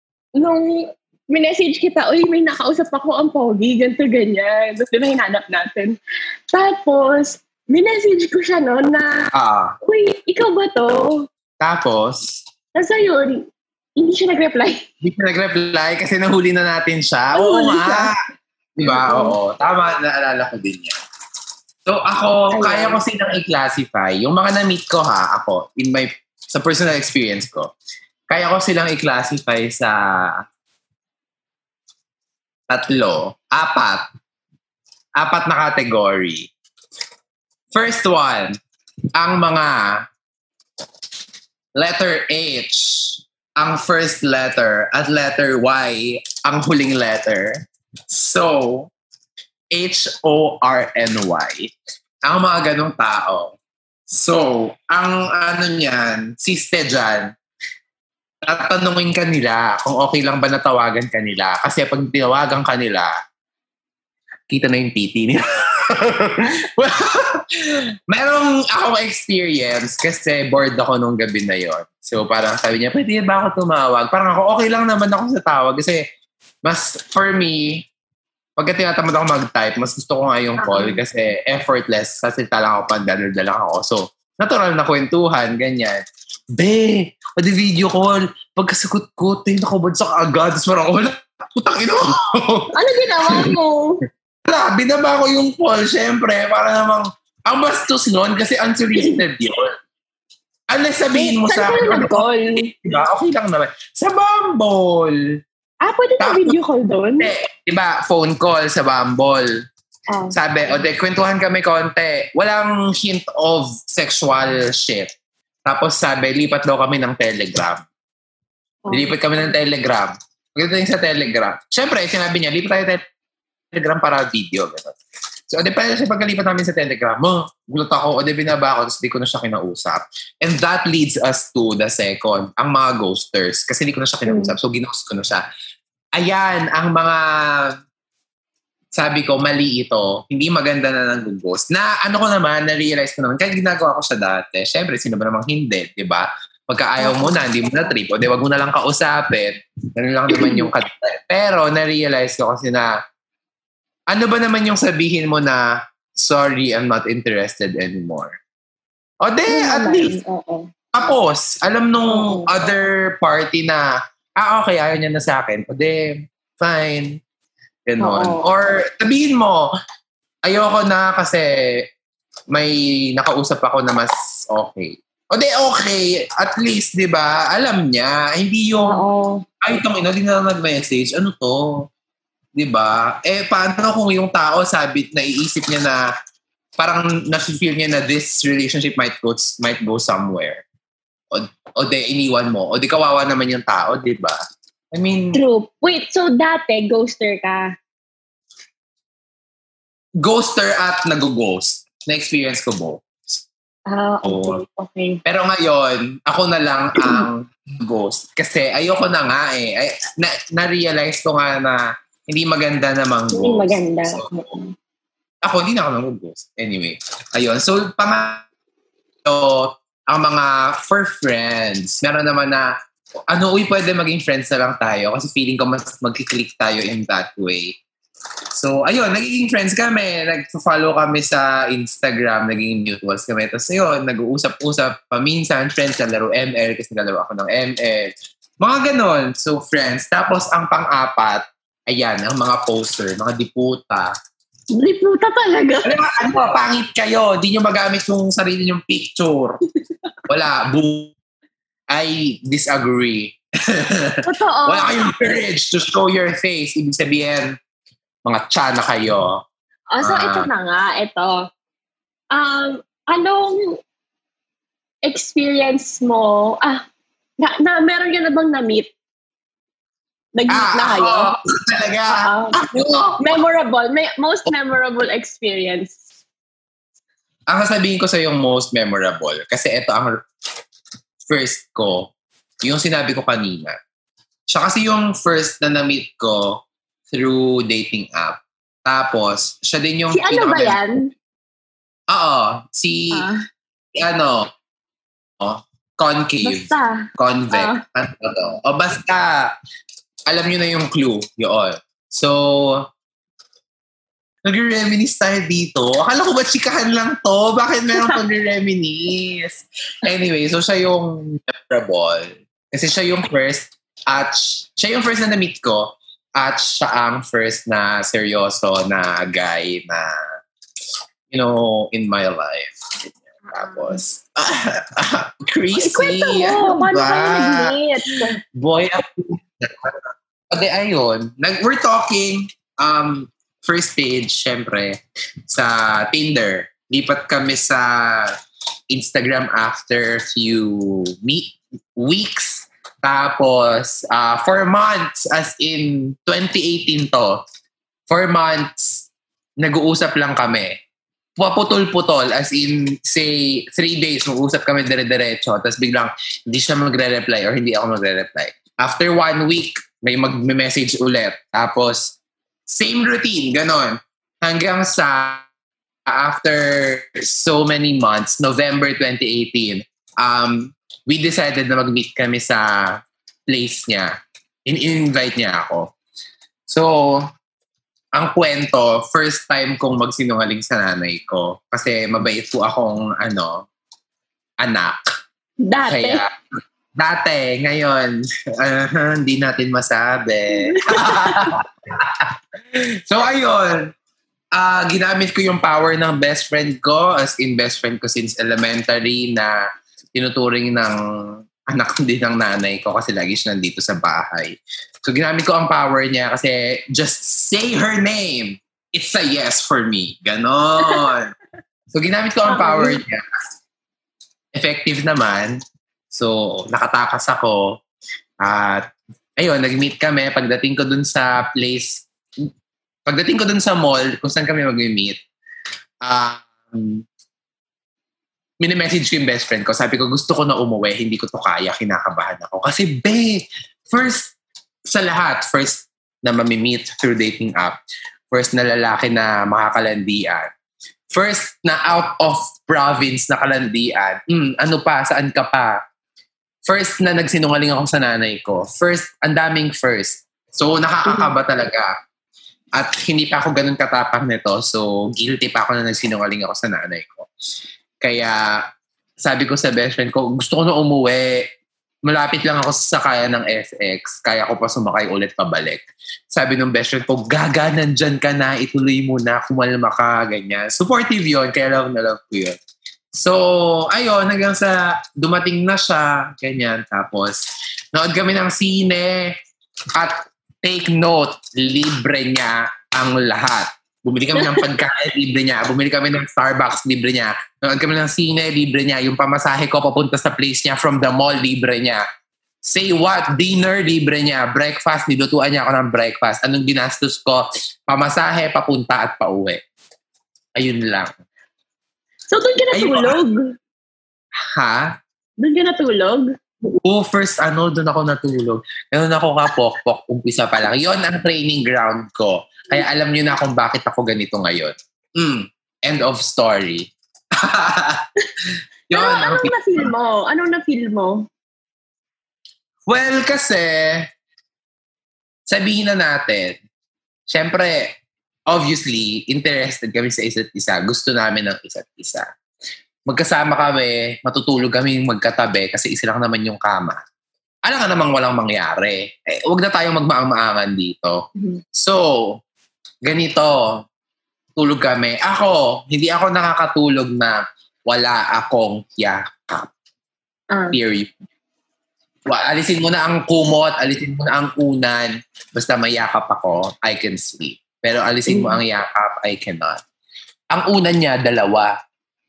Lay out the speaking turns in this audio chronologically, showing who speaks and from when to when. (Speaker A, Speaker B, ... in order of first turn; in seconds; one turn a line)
Speaker A: 0.3-6.0
Speaker A: 6.5-9.2
Speaker B: 9.3-9.7
Speaker A: 9.8-11.2
Speaker B: 11.6-12.3
Speaker A: 12.8-13.4
Speaker A: 14.0-14.8
Speaker B: 15.0-18.1
Speaker A: 17.3-18.1
Speaker B: 18.8-20.9
Speaker A: 18.9-19.4
Speaker B: 21.9-27.7
Speaker A: 22.5-23.0
Speaker B: 28.3-30.4
Speaker B: 32.7-34.0
Speaker B: 35.2-36.5
Speaker B: 37.7-38.5
Speaker B: 39.1-40.0
Speaker B: 41.8-48.9
Speaker B: 49.7-51.7
Speaker B: 52.3-53.5
Speaker B: 54.1-57.3
Speaker B: 58.4-63.1
Speaker B: 64.5-76.0
Speaker B: 76.6-77.9
Speaker B: 78.6-86.0
Speaker A: 80.6-81.0
Speaker B: 86.5-92.7
Speaker A: 92.7-94.0
Speaker B: 93.3-93.5
Speaker B: 94.5-99.7
Speaker B: 100.7-105.2
Speaker A: 101.1-102.7
Speaker A: 105.8-107.3
Speaker B: 106.2-106.5
Speaker B: 107.2-109.5
Speaker A: 110.1-110.3
Speaker B: 110.3-115.1
Speaker B: 115.7-117.8
Speaker A: 118.8-119.1
Speaker B: 118.9-123.0
Speaker B: 123.7-125.0
Speaker B: 125.5-135.4
Speaker A: 134.3-134.5
Speaker B: 136.2-137.7
Speaker B: 138.9-152.9
Speaker A: 147.0-147.9
Speaker A: 150.3-150.7
Speaker B: 154.1-155.6
Speaker B: 156.2-158.3
Speaker B: 159.2-160.1
Speaker A: 159.5-160.7
Speaker B: 160.9-167.2
Speaker A: 162.1-162.7
Speaker B: 167.9-169.7
Speaker A: 168.0-168.5
Speaker B: 170.4-171.5
Speaker B: 172.5-179.0
Speaker A: 178.8-179.4
Speaker B: 179.6-181.7
Speaker B: 182.6-186.0
Speaker B: 186.8-190.6
Speaker B: 191.3-194.4
Speaker B: 194.9-195.4
Speaker A: 195.3-197.7
Speaker B: 200.2-203.1
Speaker A: 203.9-205.2
Speaker B: 204.2-204.6
Speaker B: 205.2-214.3
Speaker A: 207.0-207.2
Speaker A: 213.3-214.7
Speaker B: 215.4-218.4
Speaker B: 219.2-222.7
Speaker B: 223.3-227.8
Speaker B: 228.5-244.1
Speaker A: 244.7-245.9
Speaker B: 245.8-249.6
Speaker B: 250.3-251.1
Speaker B: 251.9-257.6
Speaker A: 254.2-255.4
Speaker B: 258.2-259.4
Speaker A: 259.9-261.4
Speaker B: 260.0-260.5
Speaker A: 262.3-263.8
Speaker A: 265.0-266.8
Speaker A: 267.4-268.9
Speaker A: 270.4-271.3
Speaker B: 270.5-273.3
Speaker A: 272.1-272.6
Speaker A: 273.2-276.0
Speaker B: 277.5-280.2
Speaker B: 281.3-282.1
Speaker B: 282.6-283.8
Speaker B: 284.5-290.8
Speaker A: 290.1-291.1
Speaker B: 292.1-293.3
Speaker A: 293.1-293.4
Speaker B: 293.9-294.5
Speaker B: 295.4-299.5
Speaker A: 296.4-297.8
Speaker B: 300.3-302.9
Speaker B: 304.4-320.1
Speaker B: 321.3-327.7
Speaker A: 323.6-324.0
Speaker A: 325.7-328.3
Speaker B: 328.5-335.0
Speaker B: 335.5-338.4
Speaker B: 338.9-347.4
Speaker B: 348.1-349.1
Speaker B: 349.6-350.7
Speaker B: 351.4-362.1
Speaker B: 362.7-365.4
Speaker B: 366.1-373.0
Speaker B: 373.5-374.1
Speaker B: 374.6-375.9
Speaker B: 376.7-377.2
Speaker B: 378.1-383.7
Speaker B: 384.6-385.0
Speaker A: 385.6-386.2
Speaker B: 385.9-386.3
Speaker B: 387.0-393.9
Speaker A: 390.5-391.5
Speaker B: 394.5-399.6
Speaker B: 400.1-411.3
Speaker A: 410.8-411.1
Speaker B: 411.9-413.2
Speaker A: 412.5-413.0
Speaker B: 414.5-415.6
Speaker B: 416.1-417.7
Speaker B: 418.4-418.8
Speaker B: 419.4-422.0
Speaker B: 423.1-425.2
Speaker B: 426.0-427.0
Speaker B: 428.6-434.3
Speaker B: 434.9-437.8
Speaker B: 438.3-440.5
Speaker B: 441.1-445.8
Speaker B: 446.7-451.9
Speaker A: 451.1-451.3
Speaker B: 452.8-457.3
Speaker B: 458.0-458.6
Speaker B: 459.2-461.4
Speaker B: 462.1-472.6
Speaker B: 473.1-479.3
Speaker B: 479.9-492.0
Speaker A: 484.4-484.6
Speaker B: 492.6-499.6
Speaker B: 500.6-501.1
Speaker A: 502.3-503.4
Speaker B: 502.7-503.2
Speaker B: 504.5-504.9
Speaker A: 505.4-506.3
Speaker B: 506.8-518.0
Speaker B: 518.9-519.9
Speaker A: 518.9-521.2
Speaker B: 522.9-524.1
Speaker B: 525.5-526.6
Speaker B: 527.3-527.9
Speaker B: 528.5-532.3
Speaker B: 533.1-537.0
Speaker B: 537.6-541.2
Speaker B: 541.7-542.4
Speaker B: 543.0-543.7
Speaker B: 544.6-549.7
Speaker B: 550.7-551.1
Speaker B: 552.3-559.8
Speaker A: 558.3-558.6
Speaker B: 560.5-561.7